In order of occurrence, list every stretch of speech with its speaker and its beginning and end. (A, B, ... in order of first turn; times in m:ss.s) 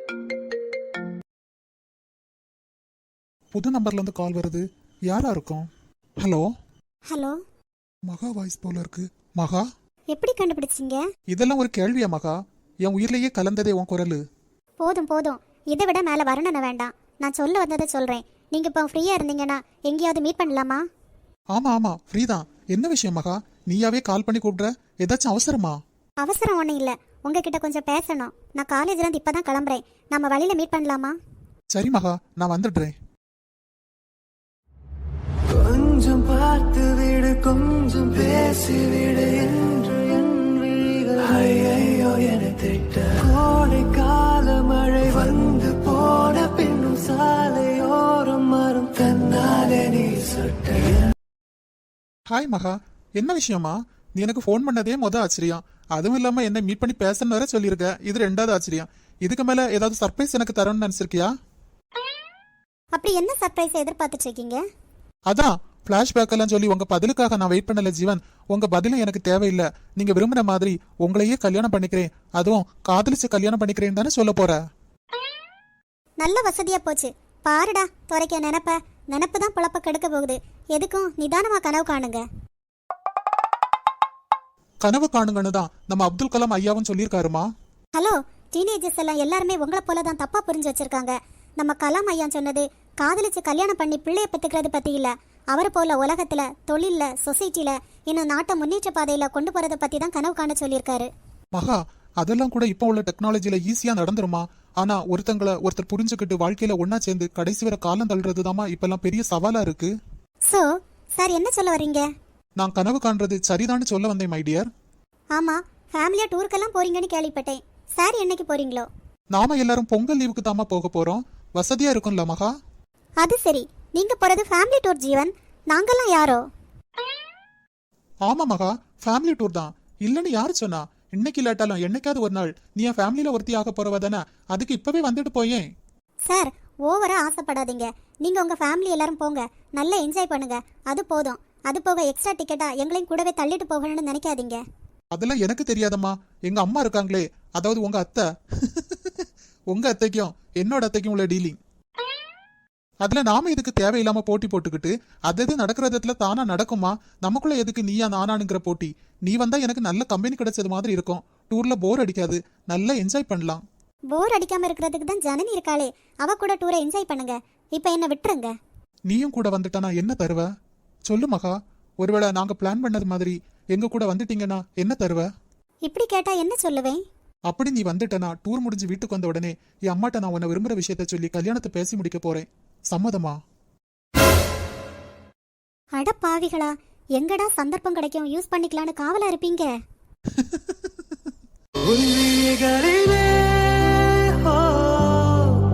0:03.5-0:05.7 A
0:06.2-0:06.5 A
0:07.1-0:07.4 B
0:08.1-0:09.6 A
0:10.1-0:11.0 B
0:11.3-0:14.2 A
0:14.8-0:20.8 B
0:21.5-0:25.8 A
0:26.2-0:31.2 B
0:31.7-0:32.9 A
0:35.5-0:51.0 C
0:52.3-1:01.3 A
1:03.0-1:04.6 B
1:05.3-1:14.6 A
1:16.2-1:22.2 B
1:24.8-1:27.5 A
1:28.0-1:41.1 B
1:41.6-1:49.9 A
1:50.5-1:52.0 B
1:52.6-1:54.7 A
1:55.4-1:58.9 B
1:59.3-2:02.5 A
2:03.2-2:06.4 B
2:08.3-2:15.6 A
2:16.3-2:24.6 B
2:25.2-2:31.6 A
2:33.0-2:43.6 A
2:44.1-2:48.5 B
2:49.1-2:50.5 A
2:51.1-2:55.3 A
2:55.9-2:57.0 B
2:57.5-3:03.4 A
3:06.0-3:09.7 B
3:11.8-3:15.5 C